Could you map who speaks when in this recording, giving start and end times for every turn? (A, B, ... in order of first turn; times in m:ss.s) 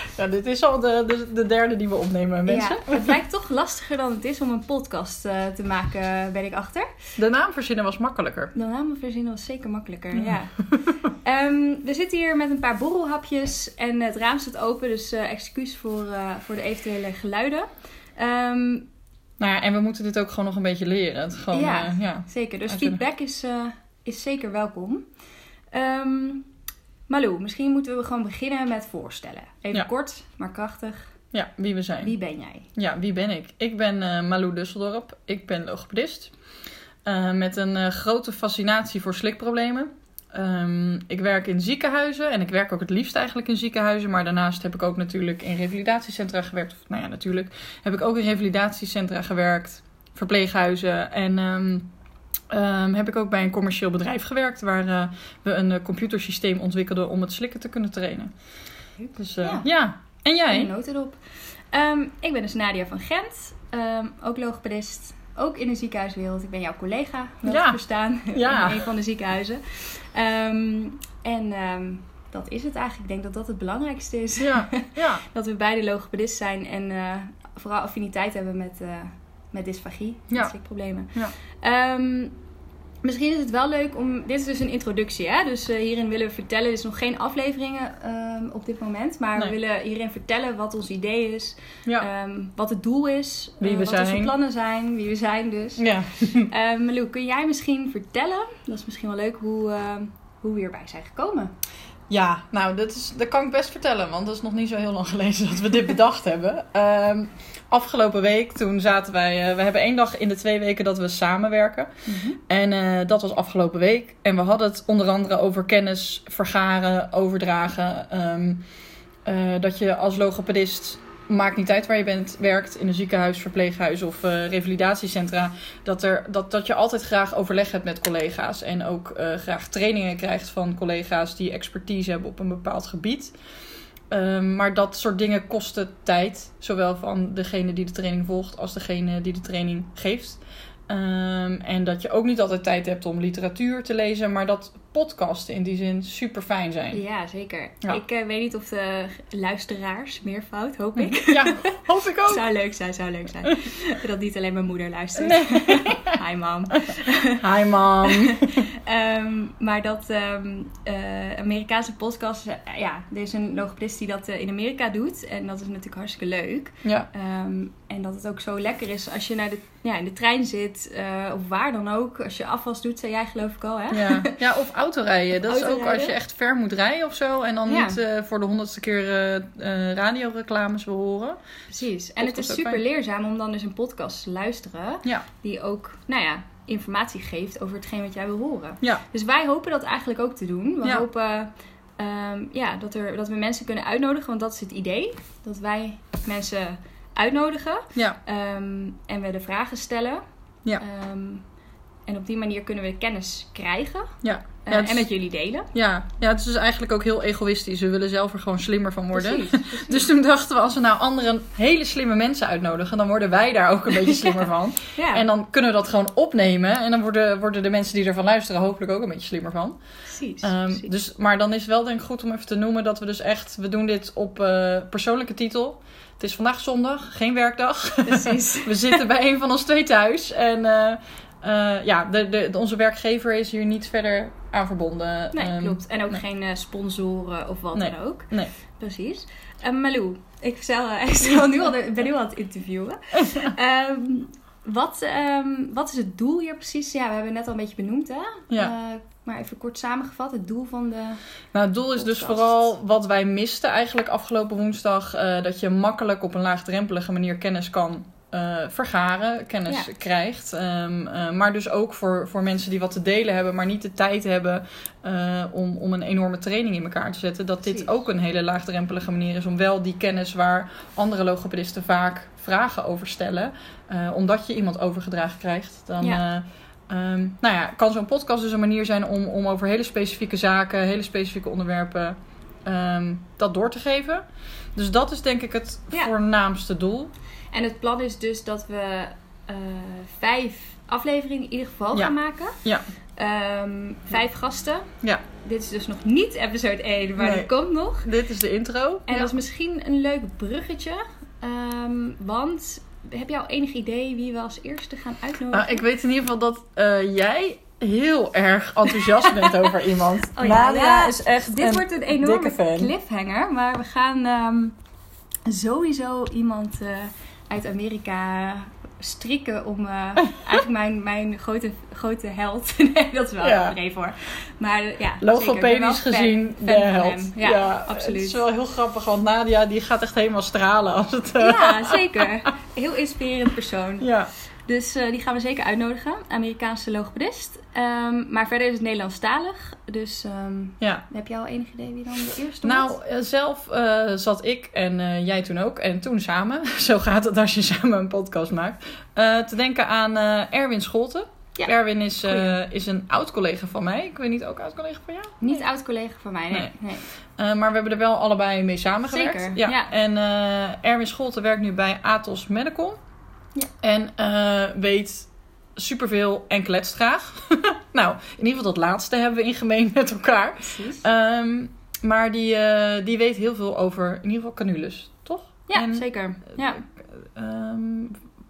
0:00.1-0:03.2 A
0:02.5-0:06.9 B
0:07.2-0:08.5 A
0:08.6-0:18.9 B
0:10.2-0:10.9 A
0:19.4-0:23.0 A
0:21.5-0:25.1 B
0:25.7-0:26.5 B
0:27.1-0:31.2 B
0:31.3-0:32.1 A
0:32.0-0:32.7 B
0:32.8-0:36.4 A
0:37.0-0:51.9 A
0:52.5-0:58.4 A
0:59.0-0:59.7 B
0:59.2-1:00.7 A
1:00.5-1:22.3 B
1:07.5-1:08.8 A
1:14.4-1:15.2 A
1:23.0-1:41.5 B
1:33.6-1:34.3 A
1:35.8-1:36.5 A
1:42.1-1:51.9 A
1:52.1-1:52.4 B
1:52.4-1:58.7 A
1:59.2-2:13.4 A
2:14.1-2:27.0 A
2:26.9-2:31.7 B
2:31.0-2:32.4 A
2:32.2-2:37.4 B
2:35.2-2:36.2 A
2:37.4-2:38.6 A
2:38.0-2:54.4 B
2:46.8-2:47.1 A
2:53.9-3:01.4 A
2:55.5-2:56.2 B
2:57.7-2:58.0 B
3:01.7-3:20.2 B
3:02.2-3:02.8 A
3:20.8-3:21.4 B
3:22.1-3:25.7 B
3:24.2-3:25.1 A
3:25.7-3:56.2 A
3:29.1-3:30.1 B
3:34.1-3:34.4 B
3:35.0-3:35.3 B
3:40.1-3:40.9 B
3:48.1-3:49.0 B
3:55.3-4:11.2 B
3:57.7-3:58.5 A
4:11.5-4:44.2 A
4:11.9-4:12.5 B
4:27.6-4:27.9 B
4:44.8-4:47.1 A
4:47.5-4:52.6 B
4:51.9-4:52.8 A
4:53.2-4:54.9 B
4:55.4-4:58.1 B
4:57.2-4:59.4 A
4:59.1-5:05.8 B
5:05.5-5:12.9 A
5:10.3-5:14.8 B
5:15.5-5:28.4 B
5:23.4-5:23.8 A
5:25.2-5:32.2 A
5:31.4-5:34.1 B
5:34.0-5:34.3 A
5:34.6-5:43.0 B
5:42.6-5:55.6 A
5:52.2-5:52.5 B
5:55.4-5:57.1 B
5:56.5-6:03.0 A
5:59.1-5:59.9 B
6:03.8-6:18.2 A
6:10.6-6:11.0 B
6:15.7-6:16.8 B